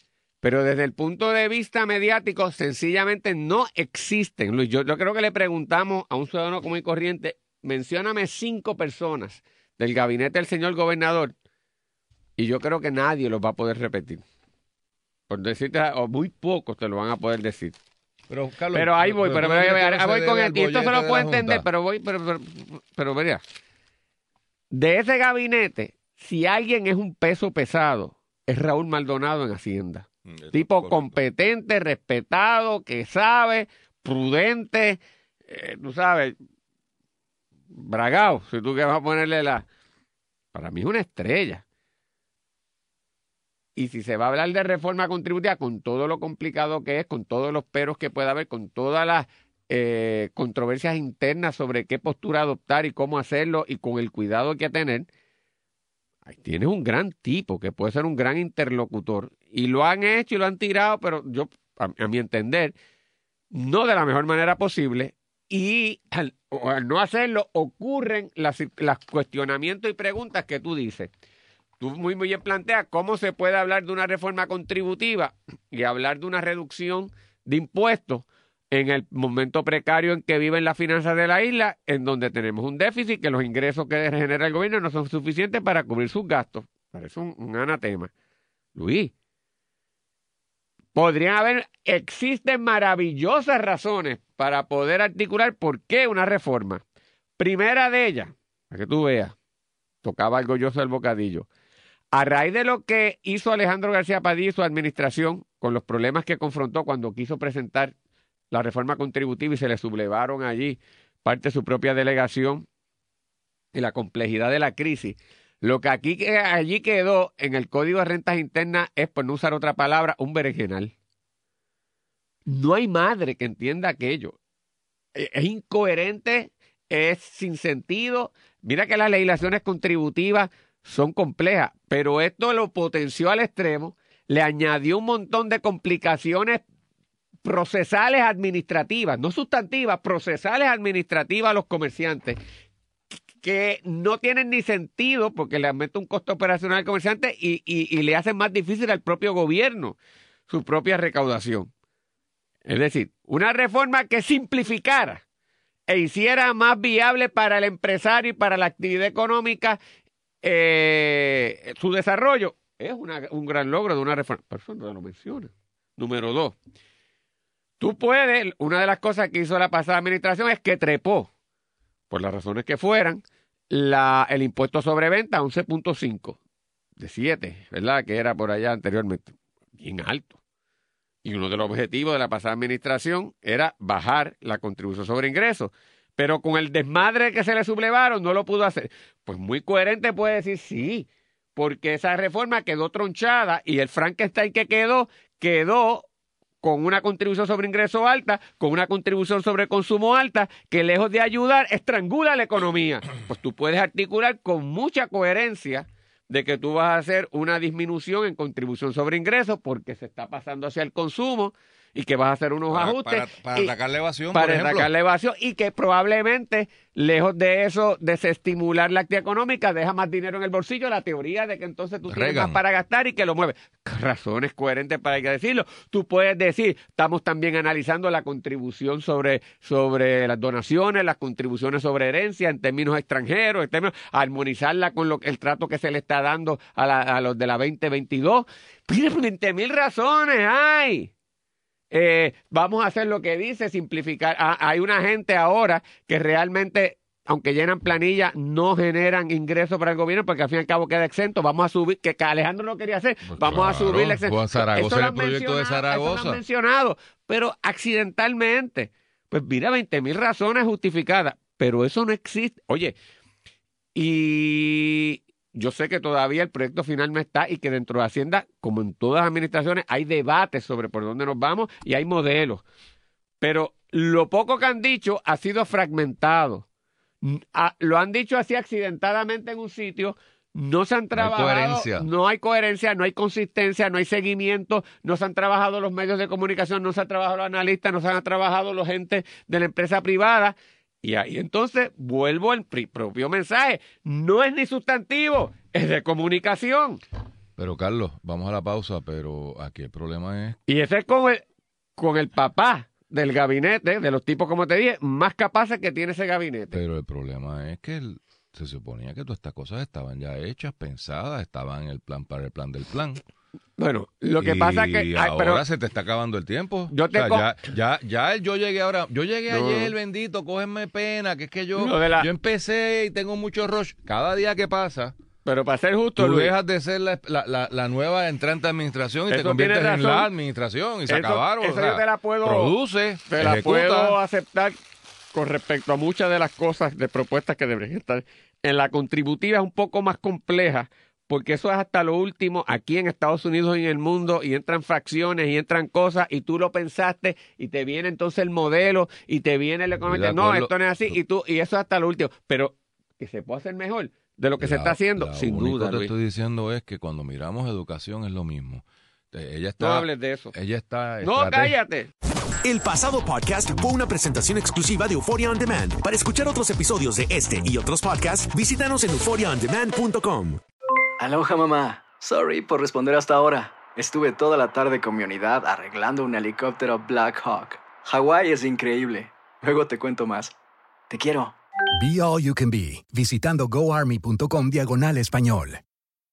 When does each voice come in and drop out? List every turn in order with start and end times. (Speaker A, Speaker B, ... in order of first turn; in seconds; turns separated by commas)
Speaker A: 0.4-11.3, Speaker A: 12.4-14.2, Speaker A: 15.3-17.8, Speaker B: 18.3-21.6, Speaker A: 18.7-23.4, Speaker A: 24.7-36.4, Speaker B: 30.3-31.1, Speaker A: 37.7-39.7, Speaker A: 40.5-41.6, Speaker A: 43.8-55.1, Speaker A: 56.3-62.8, Speaker A: 63.5-71.1, Speaker A: 71.8-88.1, Speaker A: 88.8-89.1, Speaker A: 91.0-96.8, Speaker A: 97.4-99.3, Speaker A: 100.0-101.5, Speaker A: 102.1-107.9, Speaker A: 108.5-112.7, Speaker A: 113.7-120.9, Speaker A: 122.5-124.3, Speaker A: 125.2-136.6, Speaker A: 137.4-142.4, Speaker A: 143.4-150.0, Speaker A: 150.5-151.7, Speaker A: 152.7-155.2, Speaker A: 155.9-159.8, Speaker A: 160.4-166.6, Speaker A: 167.8-171.3, Speaker A: 172.1-176.4, Speaker A: 177.0-180.4, Speaker A: 181.2-196.1, Speaker A: 196.6-213.7, Speaker B: 212.7-214.9, Speaker A: 214.3-241.1, Speaker B: 222.1-222.6, Speaker A: 241.9-262.9, Speaker B: 253.3-256.4, Speaker A: 263.9-272.6, Speaker A: 273.4-276.6, Speaker A: 277.2-297.0, Speaker B: 281.1-282.1, Speaker B: 297.6-300.6, Speaker A: 300.7-301.4, Speaker A: 302.0-306.8, Speaker B: 306.7-313.2, Speaker A: 313.8-315.6, Speaker B: 314.4-325.1, Speaker A: 316.9-317.5, Speaker A: 319.5-319.9, Speaker A: 321.8-322.3, Speaker A: 325.4-326.5, Speaker B: 326.2-334.2, Speaker A: 329.3-330.3, Speaker A: 331.1-332.8, Speaker A: 333.3-334.8, Speaker A: 335.3-356.1, Speaker B: 350.1-350.7, Speaker B: 354.6-361.8, Speaker A: 359.8-360.5, Speaker A: 361.2-362.1, Speaker C: 362.6-370.6, Speaker D: 371.2-380.6, Speaker D: 381.1-381.6, Speaker E: 382.0-385.8